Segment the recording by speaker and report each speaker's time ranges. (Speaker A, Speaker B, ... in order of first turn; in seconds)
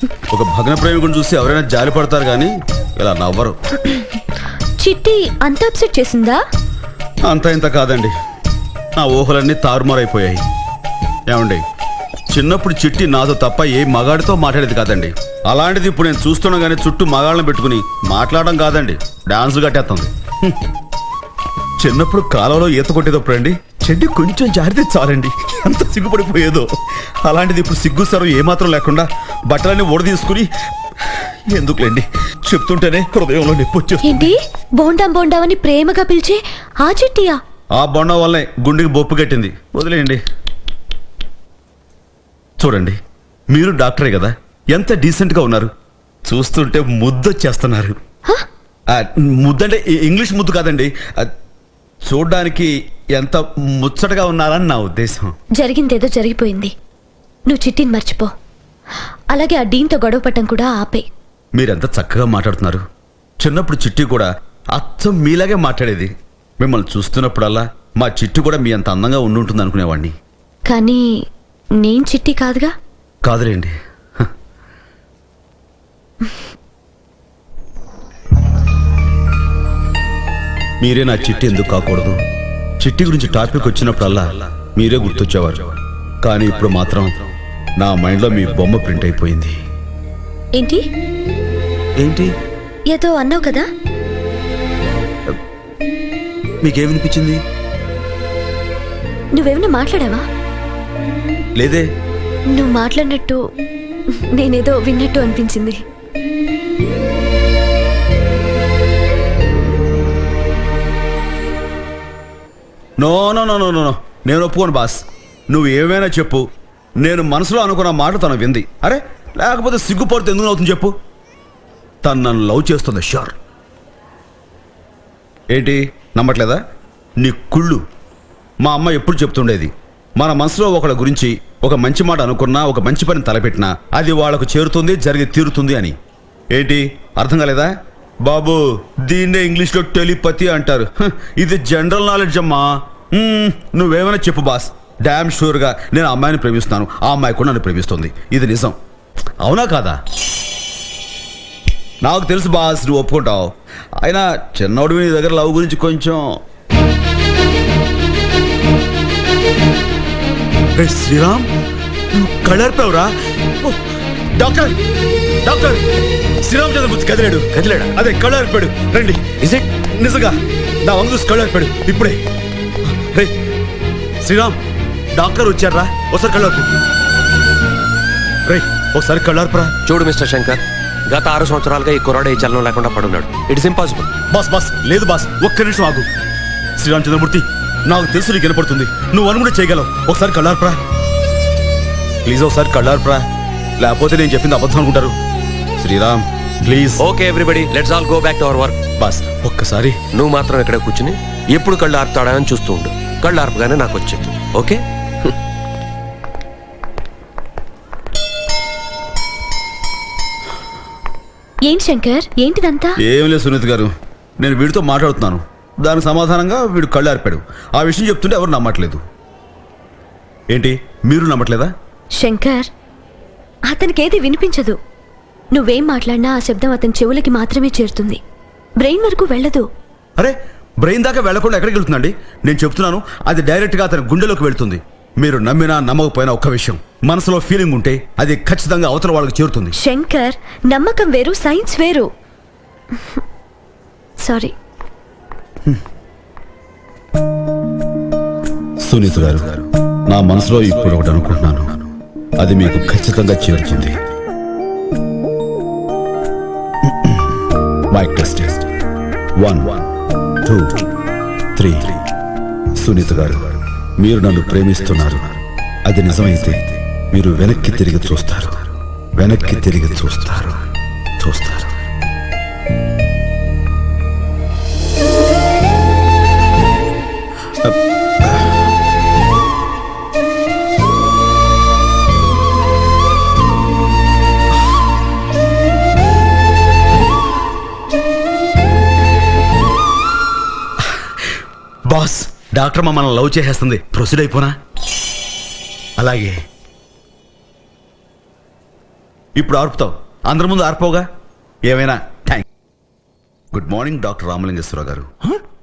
Speaker A: 0.3-3.6, 7.3-8.1, 9.0-10.4, 11.3-11.6, 12.3-20.6, 21.8-26.7, 27.2-34.3, 37.8-40.2, 42.6-43.0, 43.5-45.7, 46.3-48.0, 48.9-51.3, 52.0-55.3, 61.5-62.8, 63.4-70.1, 73.2-74.3, 80.8-82.2, 82.8-85.7, 86.2-87.3, 87.8-89.6, 92.0-92.3, 96.6-97.4, 101.6-101.9, 113.0-116.4, 117.0-120.9, 122.0-123.4, 125.5-126.6, 127.2-127.8, 128.6-136.0, 136.5-137.7, 138.2-148.8, 149.4-150.0, 152.0-156.3, 160.8-161.5, 162.1-164.8, 165.4-172.2, 172.8-173.3, 174.2-174.6, 175.2-176.7, 178.5-179.8, 184.3-186.1, 186.8-190.8, 192.2-193.2, 193.8-195.2, 195.8-197.1, 199.0-200.0, 213.0-219.0, 220.5-221.7, 230.2-239.8, 248.8-251.8, 252.4-254.0, 256.9-258.7, 259.4-259.8, 260.4-260.9, 261.6-262.0, 262.8-265.4, 265.9-270.6, 271.2-271.8, 277.6-278.6, 290.9-291.3, 291.9-294.5, 296.0-296.4, 299.4-301.1, 301.6-302.5, 303.5-305.1
Speaker B: 4.8-6.4, 34.0-37.4, 55.6-56.7, 57.5-58.3, 59.3-61.1, 70.7-71.0, 71.8-72.7, 90.6-90.8, 92.9-93.7, 99.4-100.2, 102.5-103.4, 104.3-105.8, 211.7-213.0, 222.2-222.7, 223.7-224.8, 225.5-228.2, 228.8-229.7, 239.8-242.1, 244.2-244.5
Speaker C: 167.6-167.8, 179.9-184.1, 197.0-198.8, 200.1-204.8